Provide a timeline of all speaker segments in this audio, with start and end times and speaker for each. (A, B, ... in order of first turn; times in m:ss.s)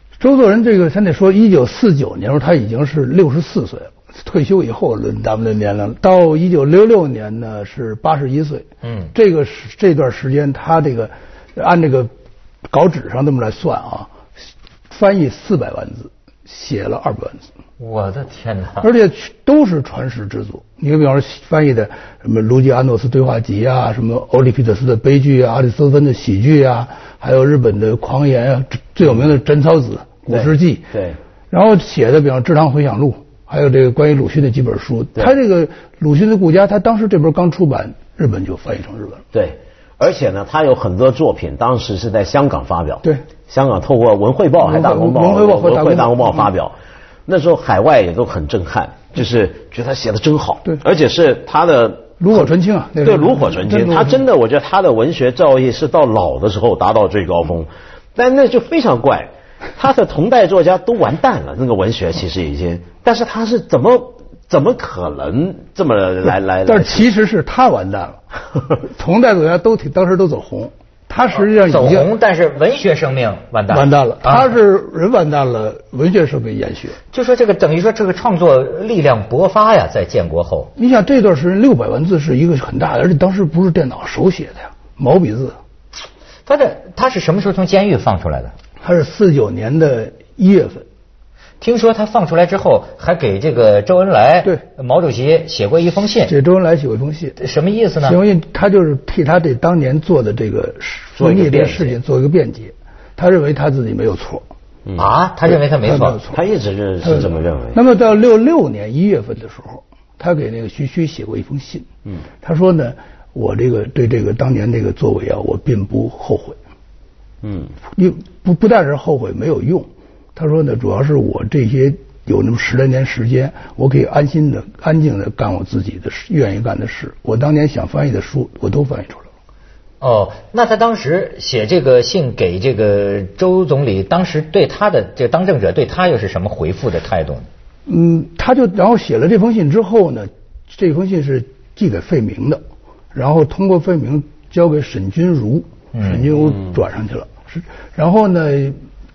0:00.2-0:12.1 A
0:08.8-0:09.1 B
0:12.7-0:14.1 A
0:14.9-0:17.5 A
0:17.8-0:18.9 B
0:18.8-0:30.9 A
0:30.3-0:31.2 C
0:31.5-0:39.2 A
0:39.3-0:46.8 C
0:44.6-0:46.5 A
0:47.3-1:07.1 C
0:52.2-0:54.2 A
1:06.6-1:08.2 A
1:08.8-1:12.1 A
1:11.3-1:14.5 B
1:13.7-1:17.0 A
1:17.1-1:20.7 B
1:20.8-1:25.6 A
1:26.4-1:28.5 B
1:28.8-1:30.8 A
1:31.6-1:36.3 B
1:36.3-1:37.4 A
1:37.4-1:38.2 B
1:38.0-1:44.4 A
1:41.2-1:42.0 C
1:45.0-1:46.2 B
1:45.5-1:46.4 A
1:46.3-1:47.8 C
1:47.0-1:51.9 A
1:52.4-1:56.6 A
1:57.4-1:57.7 C
1:57.9-2:09.2 A
2:10.0-2:17.4 B
2:17.8-2:22.6 A
2:23.1-2:28.8 A
2:25.9-2:26.3 B